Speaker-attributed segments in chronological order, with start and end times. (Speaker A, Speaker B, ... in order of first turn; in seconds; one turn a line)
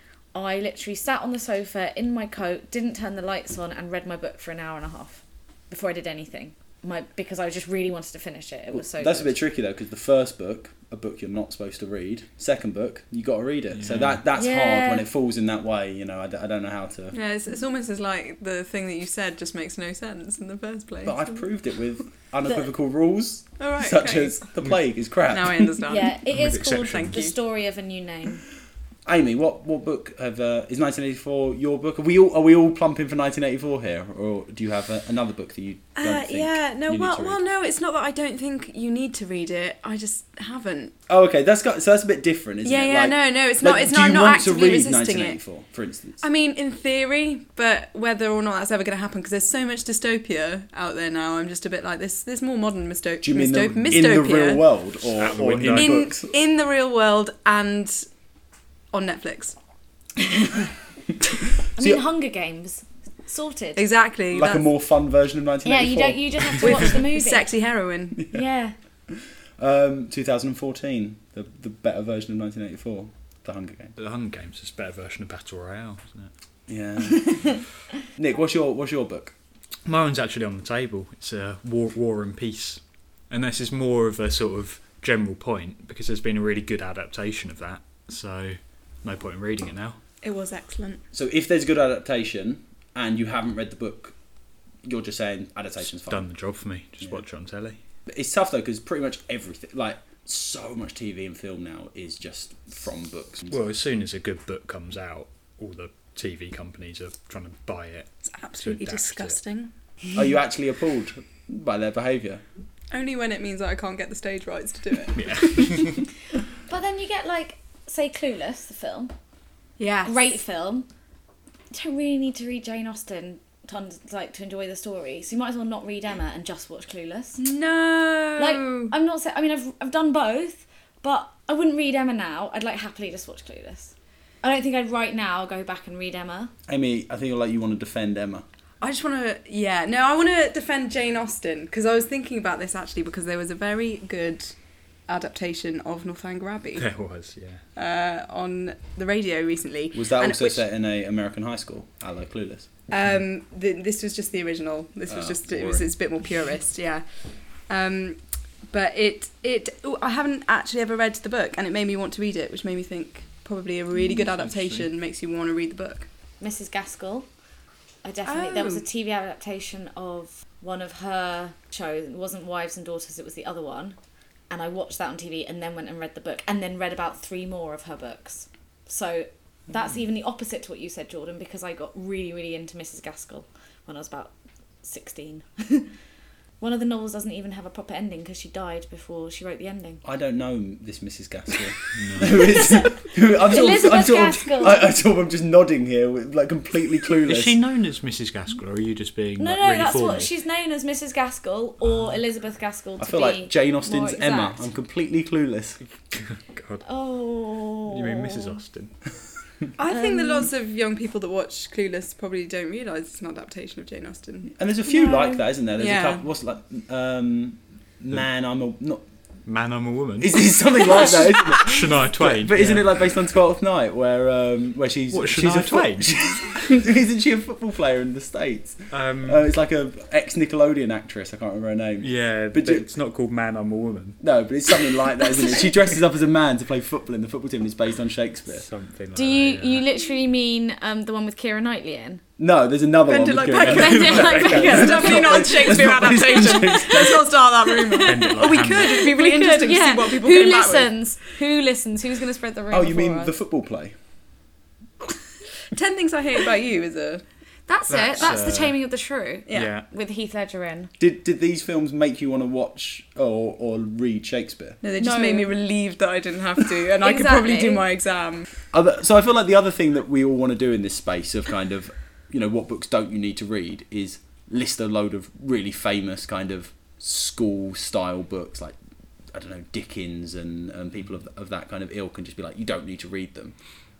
Speaker A: 0.3-9.3
Speaker B: 8.7-17.2
Speaker C: 13.7-14.2
Speaker A: 14.3-15.1
Speaker D: 17.1-21.4
Speaker B: 21.0-25.9
Speaker D: 23.6-24.4
Speaker D: 25.3-26.2
Speaker A: 25.9-28.4
Speaker C: 26.3-27.2
Speaker D: 26.8-27.4
Speaker B: 29.1-37.4
Speaker D: 36.0-40.9
Speaker B: 41.1-46.2
Speaker D: 42.6-45.4
Speaker D: 46.2-54.6
Speaker B: 53.2-56.3
Speaker C: 55.2-56.1
Speaker D: 55.6-58.0
Speaker D: 58.9-59.5
Speaker A: 61.8-63.8
Speaker B: 61.8-62.0
Speaker D: 63.8-64.7
Speaker B: 64.3-67.0
Speaker A: 65.6-67.5
Speaker D: 66.6-68.2
Speaker A: 68.3-68.7
Speaker B: 69.6-73.9
Speaker C: 74.0-76.3
Speaker B: 76.7-77.6
Speaker B: 78.1-79.3
Speaker C: 79.8-90.0
Speaker D: 90.2-91.0
Speaker B: 91.1-94.1
Speaker B: 94.8-96.3
Speaker C: 96.0-97.8
Speaker B: 98.1-103.5
Speaker C: 103.5-109.4
Speaker D: 108.3-109.7
Speaker B: 110.1-112.4
Speaker D: 112.9-115.8
Speaker C: 115.1-116.0
Speaker A: 116.7-119.1
Speaker D: 119.8-120.2
Speaker A: 120.0-120.8
Speaker A: 121.7-127.4
Speaker D: 127.4-128.9
Speaker A: 128.4-136.5
Speaker B: 136.7-138.4
Speaker D: 138.8-144.6
Speaker D: 145.1-146.9
Speaker C: 146.8-147.6
Speaker D: 147.7-150.6
Speaker B: 149.9-152.7
Speaker D: 152.9-157.0
Speaker B: 155.1-155.9
Speaker D: 157.7-166.1
Speaker C: 164.3-164.9
Speaker A: 166.4-167.3
Speaker A: 168.0-173.9
Speaker D: 168.2-168.8
Speaker A: 174.5-184.3
Speaker A: 184.8-185.9
Speaker A: 186.6-190.0
Speaker B: 190.0-197.6
Speaker C: 191.9-192.6
Speaker A: 192.3-194.9
Speaker C: 197.2-200.3
Speaker A: 199.4-204.7
Speaker B: 203.0-205.8
Speaker C: 206.1-206.8
Speaker A: 206.8-208.6
Speaker C: 207.9-208.9
Speaker D: 209.8-214.5
Speaker A: 209.9-210.5
Speaker B: 214.5-219.0
Speaker A: 214.9-215.4
Speaker D: 215.8-216.2
Speaker C: 219.4-222.8
Speaker B: 220.2-232.9
Speaker C: 225.1-226.2
Speaker C: 228.9-229.5
Speaker C: 232.0-234.2
Speaker B: 234.2-238.7
Speaker C: 238.6-239.8
Speaker A: 239.1-242.2
Speaker B: 242.4-247.5
Speaker D: 243.1-250.9
Speaker A: 243.6-245.8
Speaker C: 244.2-244.9
Speaker A: 247.9-253.3
Speaker C: 248.0-249.0
Speaker B: 252.7-253.9
Speaker D: 255.7-257.2
Speaker A: 257.7-260.9
Speaker C: 257.9-258.8
Speaker D: 259.5-259.7
Speaker C: 259.5-259.8
Speaker B: 261.0-264.8
Speaker D: 264.8-268.5
Speaker A: 265.0-265.5
Speaker A: 267.0-267.8
Speaker B: 268.7-278.8
Speaker B: 279.3-283.5